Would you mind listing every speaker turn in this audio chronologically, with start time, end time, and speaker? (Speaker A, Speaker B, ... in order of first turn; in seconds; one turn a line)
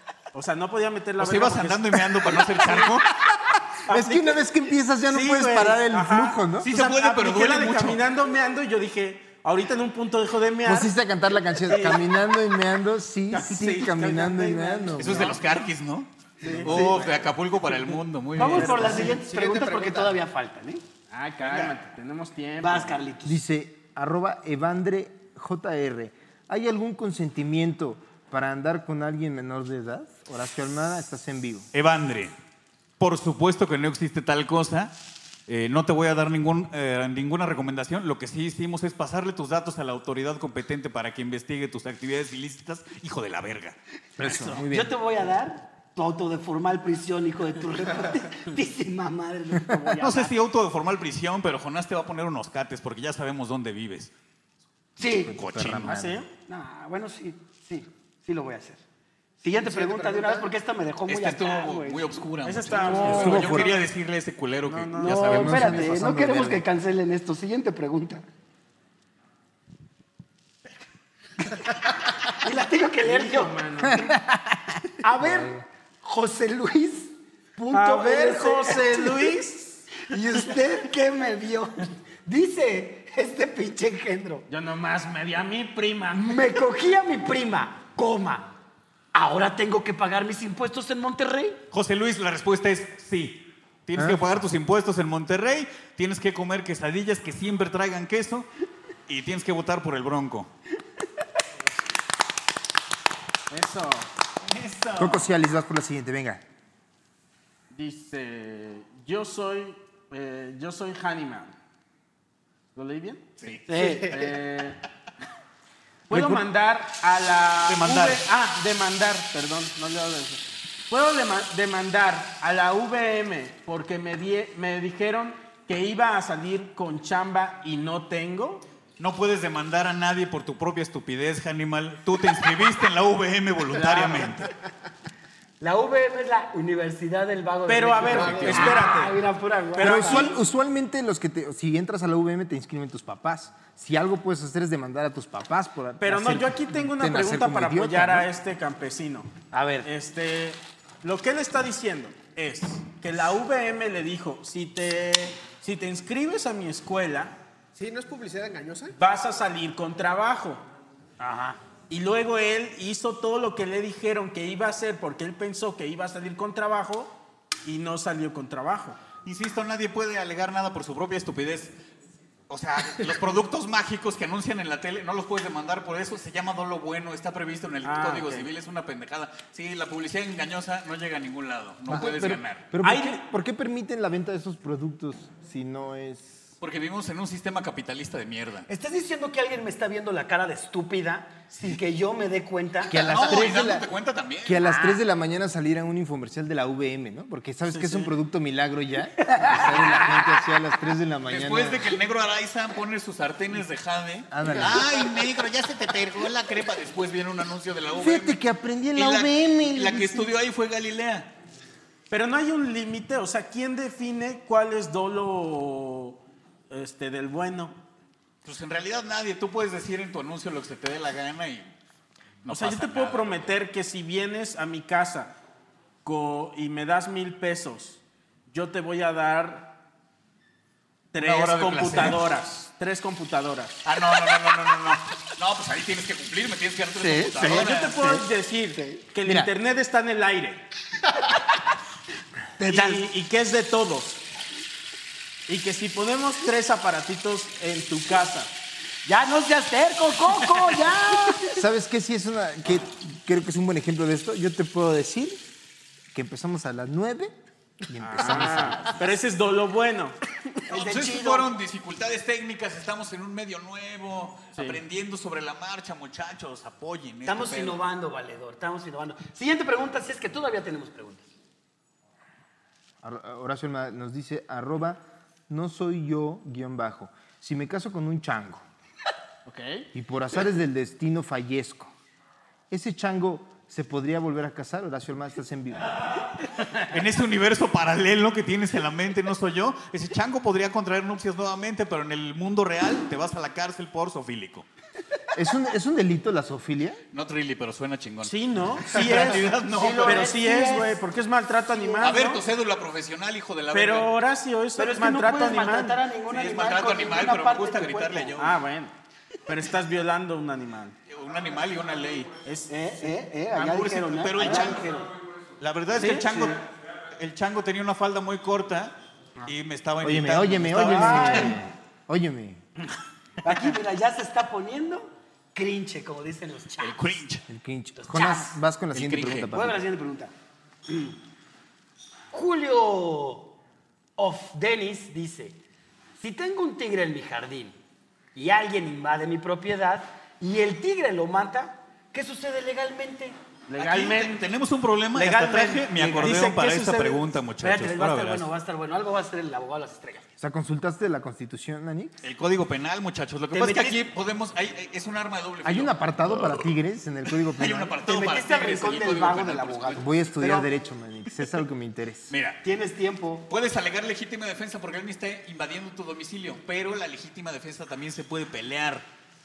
Speaker A: 0.3-3.0
Speaker B: 1.2-3.2
Speaker A: 3.9-4.4
Speaker C: 3.9-6.7
Speaker A: 5.1-10.9
Speaker B: 6.6-8.0
Speaker C: 10.7-15.4
Speaker A: 11.6-12.0
Speaker A: 13.3-15.4
Speaker B: 15.0-16.1
Speaker A: 16.4-17.1
Speaker D: 16.5-17.1
Speaker B: 16.6-19.1
Speaker D: 18.4-20.8
Speaker A: 18.4-19.2
Speaker E: 19.2-20.2
Speaker A: 21.1-23.0
Speaker B: 21.4-21.8
Speaker D: 22.6-23.4
Speaker C: 23.2-31.7
Speaker B: 31.7-32.3
Speaker B: 33.0-34.9
Speaker B: 35.5-43.8
Speaker C: 44.2-45.0
Speaker A: 44.2-44.6
Speaker D: 44.5-50.3
Speaker B: 50.0-54.1
Speaker D: 55.0-55.4
Speaker C: 55.2-56.2
Speaker B: 55.4-56.0
Speaker A: 55.8-56.3
Speaker D: 56.5-58.8
Speaker D: 59.4-62.1
Speaker E: 59.6-60.5
Speaker B: 61.1-65.8
Speaker A: 62.4-63.8
Speaker D: 62.8-63.2
Speaker C: 63.0-63.8
Speaker A: 64.7-65.6
Speaker D: 65.0-68.2
Speaker C: 65.2-66.7
Speaker D: 72.2-73.6
Speaker A: 73.0-74.1
Speaker C: 73.8-75.6
Speaker D: 75.0-79.4
Speaker A: 77.7-80.0
Speaker D: 80.0-84.5
Speaker A: 84.5-86.6
Speaker D: 86.1-88.6
Speaker D: 89.1-91.6
Speaker B: 91.7-98.5
Speaker C: 94.0-94.3
Speaker B: 99.1-100.5
Speaker A: 103.5-104.1
Speaker B: 104.4-105.3
Speaker C: 105.0-106.4
Speaker A: 107.7-111.5
Speaker A: 112.8-114.8
Speaker B: 113.4-114.3
Speaker D: 113.7-114.1
Speaker A: 116.1-128.7
Speaker C: 116.1-116.5
Speaker B: 117.6-118.2
Speaker B: 129.0-134.5
Speaker A: 133.7-134.4
Speaker D: 135.6-140.4
Speaker A: 137.7-139.2
Speaker E: 138.0-138.9
Speaker A: 139.7-140.4
Speaker C: 139.8-148.3
Speaker A: 146.0-149.3
Speaker D: 149.5-149.9
Speaker A: 149.8-157.4
Speaker E: 157.8-159.0
Speaker A: 158.9-160.7
Speaker D: 161.2-161.6
Speaker A: 161.9-169.0
Speaker B: 169.2-171.7
Speaker B: 172.5-182.7
Speaker A: 177.8-178.5
Speaker C: 181.9-186.5
Speaker A: 182.8-183.1
Speaker B: 186.6-188.7
Speaker D: 188.7-193.3
Speaker C: 192.9-193.9
Speaker B: 192.9-194.7
Speaker C: 194.4-202.0
Speaker D: 194.6-195.0
Speaker A: 197.7-198.1
Speaker D: 199.2-200.2
Speaker B: 201.3-208.4
Speaker C: 204.3-205.1
Speaker C: 208.0-210.3
Speaker B: 208.9-211.3
Speaker A: 212.1-217.8
Speaker B: 218.4-221.7
Speaker B: 222.4-223.5
Speaker A: 222.5-225.4
Speaker A: 226.0-229.8
Speaker A: 231.1-233.8
Speaker B: 231.2-232.3
Speaker B: 233.8-238.2
Speaker D: 237.0-238.2
Speaker A: 237.4-240.6
Speaker C: 239.2-239.5
Speaker D: 242.6-243.1
Speaker A: 242.7-244.2
Speaker A: 245.5-248.5
Speaker D: 249.1-251.6
Speaker C: 251.5-255.4
Speaker C: 256.1-257.3
Speaker C: 257.9-259.0
Speaker A: 258.0-260.2
Speaker D: 260.7-261.5
Speaker B: 260.7-267.8
Speaker A: 264.6-264.8
Speaker D: 267.3-271.3
Speaker C: 273.0-278.6
Speaker A: 279.5-279.9
Speaker C: 279.9-281.9
Speaker C: 282.7-286.1
Speaker B: 286.9-294.7
Speaker C: 295.3-297.0
Speaker B: 297.1-300.4
Speaker A: 298.2-302.4
Speaker D: 299.0-301.0
Speaker D: 301.7-302.3
Speaker B: 302.0-304.1
Speaker A: 303.7-306.0
Speaker D: 304.8-308.4
Speaker B: 306.3-308.6
Speaker A: 308.4-308.9
Speaker A: 309.5-311.0
Speaker B: 311.1-312.3
Speaker A: 312.4-312.8
Speaker D: 312.7-315.1
Speaker A: 313.5-314.8
Speaker B: 313.8-314.9
Speaker B: 315.6-318.9
Speaker A: 315.9-316.6
Speaker B: 319.4-321.6
Speaker C: 320.0-322.6
Speaker A: 321.0-321.6
Speaker D: 323.4-327.0
Speaker A: 323.5-323.7
Speaker B: 326.8-327.4
Speaker C: 327.5-329.8
Speaker D: 328.0-328.6
Speaker B: 328.9-329.5
Speaker D: 329.5-330.3
Speaker D: 330.9-331.2
Speaker D: 332.3-333.5
Speaker D: 334.2-335.6
Speaker D: 336.2-337.8
Speaker D: 338.4-343.4
Speaker A: 343.7-344.5
Speaker B: 343.8-348.5
Speaker D: 345.2-346.3
Speaker A: 345.2-347.3
Speaker D: 347.6-350.3
Speaker C: 350.4-352.1
Speaker B: 352.2-356.6
Speaker D: 353.5-354.0
Speaker C: 355.6-358.0
Speaker B: 357.6-360.1
Speaker D: 358.1-360.7
Speaker C: 360.0-362.3
Speaker B: 362.3-362.6
Speaker D: 362.6-363.5
Speaker B: 363.5-369.1